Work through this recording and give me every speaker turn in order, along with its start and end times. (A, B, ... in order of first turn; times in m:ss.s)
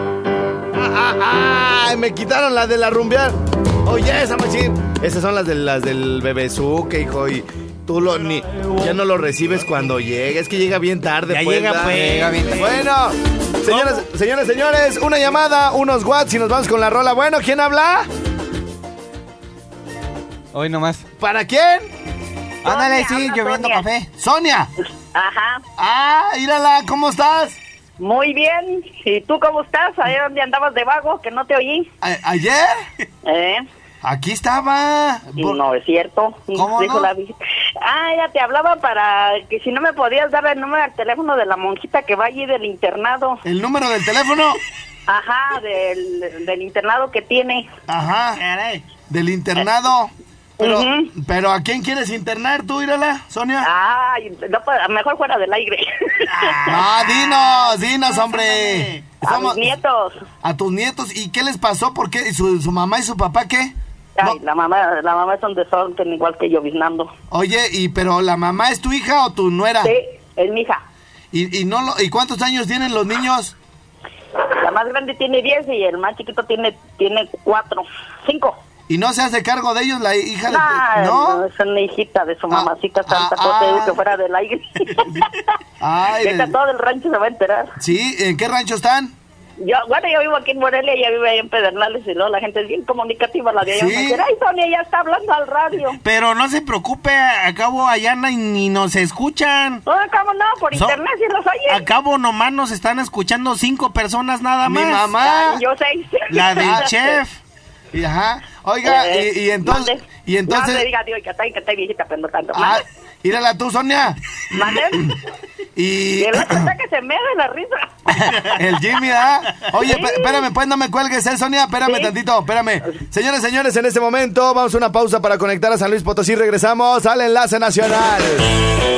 0:00.7-0:18.1 A
0:11.3-0:12.8 B
0:11.9-0:12.7 C
0:13.6-0:14.0 B
0:20.5-0:21.0 C
0:21.2-0:21.9 A
0:22.6-0:24.1 C
0:22.6-0:23.8 D
0:24.2-0:24.7 A
0:25.1-0:25.6 D
0:25.8-0:27.6 A
0:28.0-0:31.9 D
0:32.0-0:32.8 A
0:33.2-0:33.6 D
0:34.0-0:35.5 A
0:35.3-0:43.4 D
0:36.6-0:37.1 C
0:43.4-0:44.6 A
0:45.1-0:47.7 D
0:47.9-0:48.4 A
0:48.3-0:48.8 B
0:49.1-0:53.7 A
0:50.6-0:51.1 D
0:53.6-0:56.7 D
0:56.3-0:59.1 B
0:56.6-0:59.6 A
0:59.2-1:00.2 D
1:00.4-1:04.3 A
1:04.2-1:07.1 D
1:07.3-1:09.9 A
1:09.8-1:10.8 D
1:11.3-1:13.5 A
1:14.6-1:18.6 D
1:18.9-1:21.4 A
1:20.5-1:25.4 D
1:22.5-1:24.0 A
1:25.8-1:26.6 A
1:26.2-1:27.7 D
1:27.8-1:29.1 A
1:29.6-1:36.0 D
1:33.7-1:34.2 A
1:36.0-1:39.8 B
1:39.8-1:41.8 D
1:40.7-1:41.0 B
1:41.7-1:45.1 B
1:44.6-1:45.6 A
1:45.2-1:47.2 D
1:46.3-1:47.4 B
1:46.5-1:46.9 A
1:47.9-1:50.9 A
1:48.8-1:52.8 D
1:52.5-1:54.2 A
1:54.5-1:55.2 D
1:55.8-1:56.7 A
1:56.2-1:57.9 D
1:58.1-2:08.5 A
1:59.9-2:00.5 D
2:01.8-2:02.1 D